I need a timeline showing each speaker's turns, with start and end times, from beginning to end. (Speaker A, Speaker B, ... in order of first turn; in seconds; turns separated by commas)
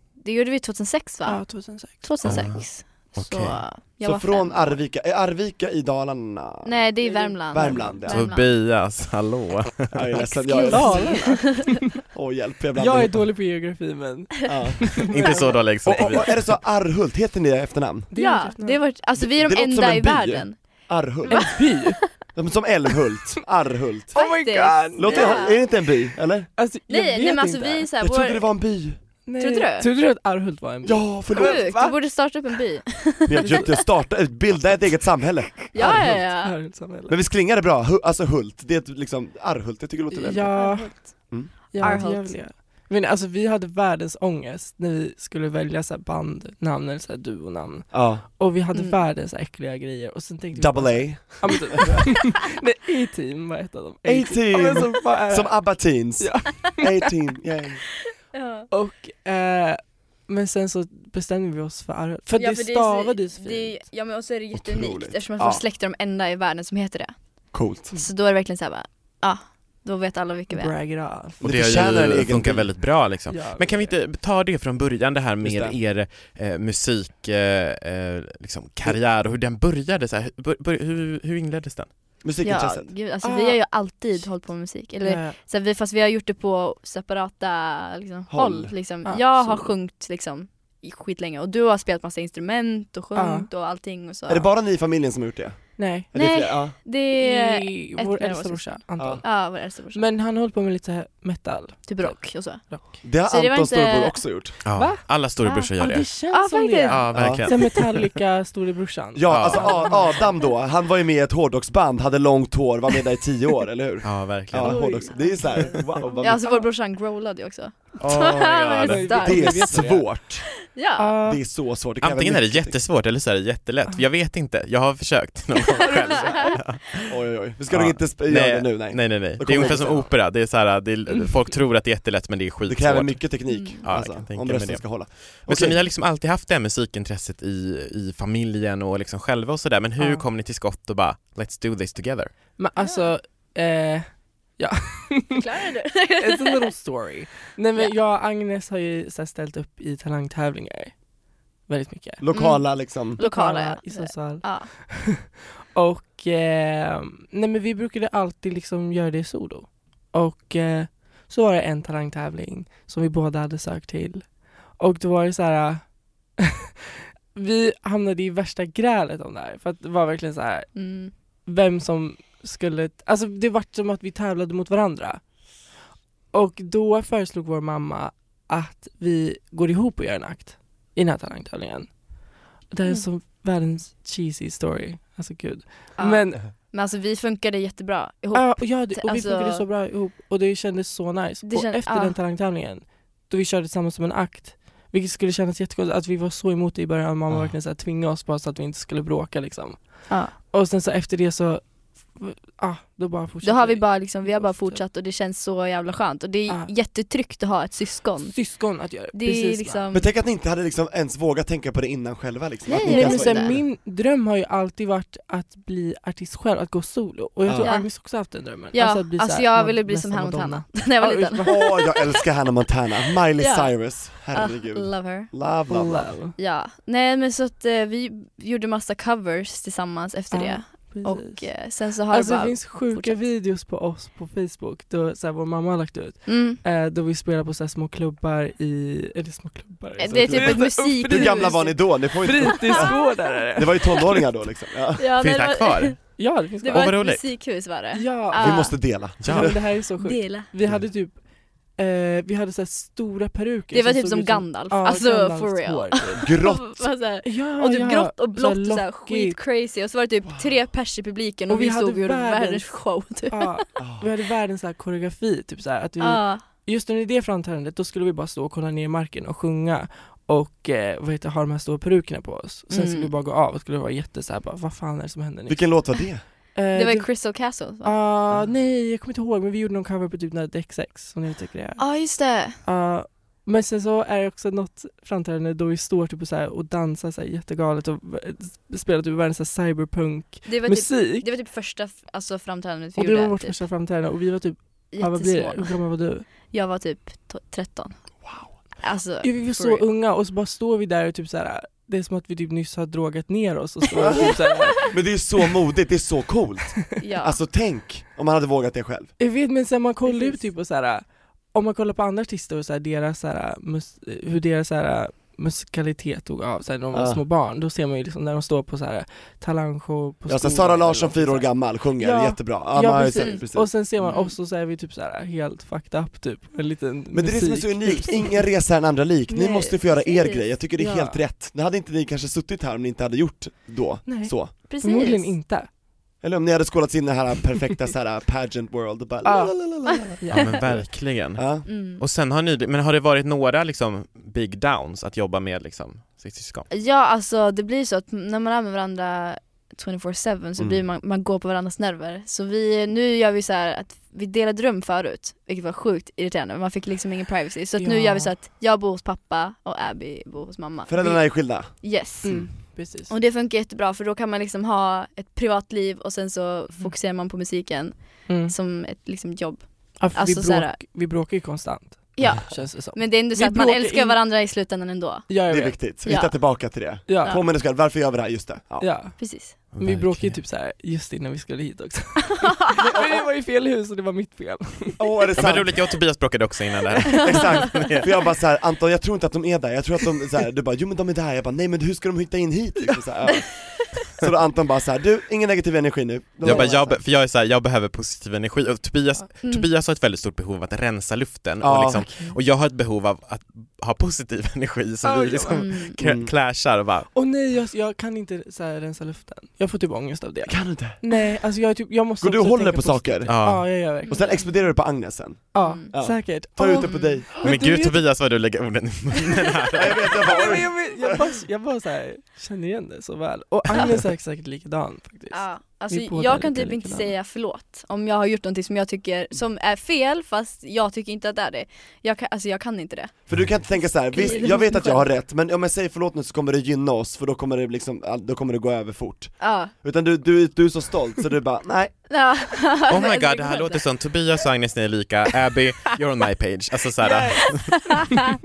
Speaker A: 0.2-4.8, Speaker B: 1.2-2.4, Speaker C: 2.2-3.6, Speaker D: 4.0-6.8, Speaker A: 6.7-8.5, Speaker B: 7.0-8.0, Speaker D: 7.5-8.3, Speaker C: 8.1-10.2, Speaker D: 9.9-13.3, Speaker A: 10.2-11.7, Speaker B: 10.7-11.8, Speaker B: 12.8-16.3, Speaker D: 14.5-15.3, Speaker C: 15.1-16.5, Speaker D: 15.8-18.1, Speaker B: 18.1-18.8, Speaker A: 18.1-21.8, Speaker D: 19.2-21.7, Speaker B: 21.3-22.0, Speaker D: 22.4-24.2, Speaker B: 24.1-25.5, Speaker A: 24.1-25.6, Speaker D: 25.0-26.5, Speaker B: 26.6-27.9, Speaker A: 26.9-28.4, Speaker D: 28.0-29.0, Speaker B: 29.3-32.0, Speaker A: 29.4-29.9, Speaker D: 30.8-31.7, Speaker A: 31.4-33.7, Speaker D: 33.3-36.2, Speaker B: 33.4-33.8, Speaker B: 35.7-37.2, Speaker A: 35.7-36.6, Speaker D: 37.1-40.8, Speaker B: 40.1-57.1, Speaker A: 40.4-42.4, Speaker D: 47.9-48.2, Speaker A: 48.7-49.0, Speaker D: 50.5-52.0, Speaker D: 54.0-57.8, Speaker A: 58.3-58.7, Speaker B: 58.7-63.8, Speaker A: 62.3-67.3, Speaker D: 64.5-65.6, Speaker D: 67.5-67.9, Speaker A: 67.9-70.7, Speaker B: 70.5-71.4, Speaker D: 71.4-72.8, Speaker C: 71.4-81.9, Speaker B: 73.3-74.0, Speaker D: 75.4-75.8, Speaker D: 82.2-82.9, Speaker A: 82.4-94.5, Speaker B: 83.2-83.6, Speaker B: 85.0-85.4, Speaker D: 88.3-88.7, Speaker B: 89.0-89.7, Speaker B: 93.2-93.5, Speaker D: 94.3-96.8, Speaker B: 95.8-96.1, Speaker A: 96.1-100.1, Speaker B: 97.1-103.0, Speaker A: 101.9-102.7, Speaker D: 103.0-104.6, Speaker A: 103.3-104.2, Speaker C: 104.7-106.1, Speaker B: 104.7-105.2, Speaker A: 105.4-105.7, Speaker B: 105.8-110.4, Speaker A: 106.3-107.0, Speaker C: 106.9-108.1, Speaker D: 107.1-107.5, Speaker D: 109.2-116.4, Speaker C: 109.3-109.8, Speaker C: 114.0-114.9, Speaker B: 114.6-116.7, Speaker A: 114.8-115.4, Speaker A: 116.2-119.7, Speaker C: 118.0-119.1, Speaker B: 118.8-120.1, Speaker D: 119.1-120.6, Speaker A: 120.7-121.1, Speaker B: 121.0-121.4, Speaker D: 121.2-122.8, Speaker C: 122.0-127.2, Speaker A: 125.8-126.5, Speaker D: 127.0-130.1, Speaker C: 127.7-133.3, Speaker D: 132.7-135.8, Speaker A: 133.5-133.8, Speaker C: 133.8-142.3, Speaker B: 140.0-140.2, Speaker B: 142.6-145.4, Speaker A: 142.8-143.1, Speaker A: 145.3-146.7, Speaker B: 146.2-151.0, Speaker B: 151.7-152.2, Speaker D: 152.2-153.2, Speaker A: 152.3-154.7, Speaker B: 153.2-166.6, Speaker B: 167.3-170.8, Speaker A: 170.8-171.1, Speaker B: 171.4-175.2, Speaker B: 176.3-181.9, Speaker B: 182.7-186.4, Speaker A: 186.0-189.7, Speaker B: 188.3-204.8, Speaker A: 191.4-192.2, Speaker A: 200.1-200.3, Speaker A: 203.4-208.5, Speaker B: 208.2-209.8, Speaker A: 209.1-210.1, Speaker D: 209.9-213.7, Speaker B: 212.7-221.8, Speaker A: 212.7-213.5, Speaker D: 217.4-217.7, Speaker A: 217.6-222.1, Speaker D: 221.4-226.1, Speaker A: 223.4-225.3, Speaker B: 225.7-226.4, Speaker A: 226.4-233.2, Speaker B: 230.3-244.2, Speaker A: 236.3-236.6, Speaker A: 240.0-241.8, Speaker D: 240.0-245.1, Speaker A: 242.4-243.0, Speaker A: 245.0-246.0, Speaker C: 245.2-247.3, Speaker B: 246.2-247.0, Speaker A: 246.6-248.8, Speaker B: 247.9-251.2, Speaker D: 248.4-249.6, Speaker C: 249.2-249.6, Speaker A: 250.0-250.5, Speaker B: 251.8-256.2, Speaker A: 253.7-263.6, Speaker D: 256.2-256.9, Speaker B: 257.2-259.4, Speaker D: 260.2-260.5, Speaker B: 261.5-262.7, Speaker B: 263.3-275.9, Speaker D: 263.8-264.1, Speaker A: 266.0-266.4, Speaker A: 272.7-273.1, Speaker D: 275.5-276.2, Speaker B: 276.6-277.2, Speaker A: 276.7-278.0, Speaker B: 277.8-281.8, Speaker A: 281.8-282.6, Speaker B: 282.6-291.3, Speaker A: 290.5-293.6, Speaker B: 293.0-296.3, Speaker A: 294.9-295.8, Speaker A: 296.3-298.0, Speaker D: 298.2-298.5, Speaker A: 298.8-299.8, Speaker B: 299.2-304.9, Speaker D: 304.0-309.1, Speaker A: 307.0-307.4, Speaker B: 309.2-328.4, Speaker A: 310.1-310.4, Speaker D: 316.9-317.2, Speaker D: 320.3-323.8, Speaker A: 324.0-324.4, Speaker D: 327.1-334.6, Speaker B: 329.3-329.8, Speaker A: 329.9-330.4, Speaker B: 330.8-331.2, Speaker B: 334.1-335.7, Speaker A: 334.7-335.3, Speaker D: 336.2-341.7, Speaker B: 339.2-340.5, Speaker C: 340.3-346.7, Speaker A: 341.7-342.0, Speaker A: 346.7-362.5, Speaker B: 357.8-358.3, Speaker D: 360.9-361.7, Speaker B: 362.2-363.1, Speaker A: 363.1-370.8, Speaker B: 368.3-368.5, Speaker B: 370.0-374.2, Speaker A: 372.2-375.3, Speaker B: 375.3-375.8, Speaker D: 375.5-378.9, Speaker A: 376.0-376.6, Speaker B: 377.1-377.4, Speaker B: 378.8-385.0, Speaker A: 379.2-379.6, Speaker C: 379.7-380.4, Speaker A: 382.4-382.8, Speaker D: 385.0-385.9, Speaker C: 385.4-388.1, Speaker D: 387.2-397.0, Speaker A: 387.2-387.9, Speaker C: 396.4-407.1, Speaker D: 401.6-402.1, Speaker B: 402.1-402.4, Speaker B: 405.0-405.6, Speaker A: 405.5-406.0, Speaker D: 406.0-406.3, Speaker B: 407.1-414.3, Speaker D: 410.5-411.0, Speaker D: 412.2-417.4, Speaker C: 413.3-413.7, Speaker A: 414.1-414.5, Speaker B: 415.5-418.0, Speaker A: 415.6-415.9, Speaker A: 416.8-417.2, Speaker C: 417.4-420.4, Speaker D: 419.7-421.2, Speaker B: 420.2-427.1, Speaker A: 425.3-433.2, Speaker D: 433.3-441.9, Speaker A: 433.8-435.1, Speaker A: 439.4-439.7, Speaker A: 442.1-443.8, Speaker C: 442.9-448.1, Speaker B: 447.1-447.4